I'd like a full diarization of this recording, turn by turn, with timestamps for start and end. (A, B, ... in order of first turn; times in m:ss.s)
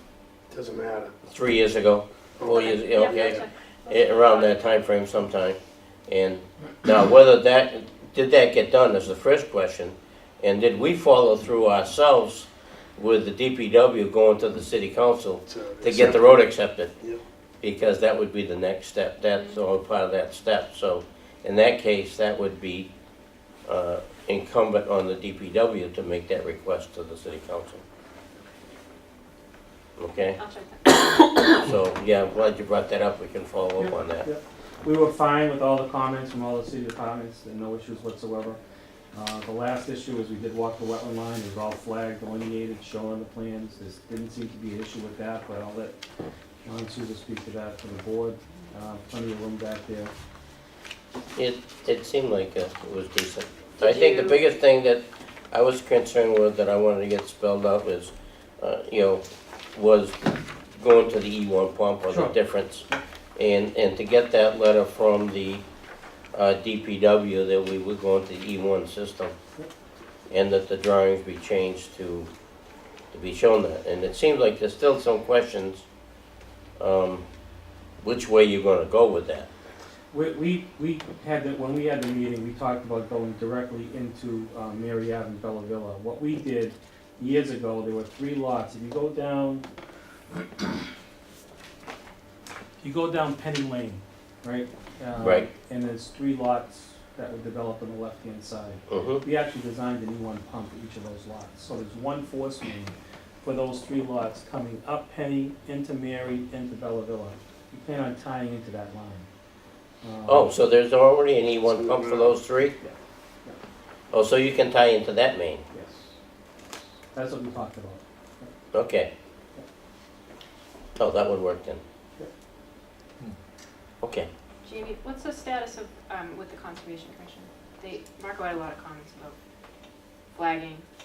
0:00.5-0:01.1 A
0:01.2-0:16.9 B
0:02.4-0:03.4 A
0:02.5-0:04.7 C
0:15.5-0:16.5 A
0:17.6-0:22.9 B
0:23.6-0:27.8 B
0:30.0-0:30.4 B
0:30.2-0:31.4 C
0:31.5-0:34.3 B
0:33.8-0:38.6 D
0:39.1-0:45.9 D
0:46.6-0:50.1 D
0:51.3-1:05.6 B
0:53.8-0:54.4 C
1:02.1-1:02.4 D
1:06.3-1:09.3 B
1:10.3-1:12.3 B
1:13.1-1:15.8 B
1:16.8-1:17.2 B
1:18.0-1:19.5 B
1:20.1-1:29.6 D
1:32.8-1:49.3 D
1:35.2-1:35.5 B
1:38.9-1:39.2 B
1:50.0-1:50.5 D
1:50.3-1:52.7 B
1:51.5-1:52.4 A
1:52.8-1:53.6 D
1:54.1-1:55.6 B
1:55.7-1:56.1 D
1:57.1-1:58.5 D
1:58.7-1:59.1 B
2:01.0-2:01.8 B
2:04.0-2:04.3 B
2:04.6-2:09.3 C
2:10.3-2:10.8 C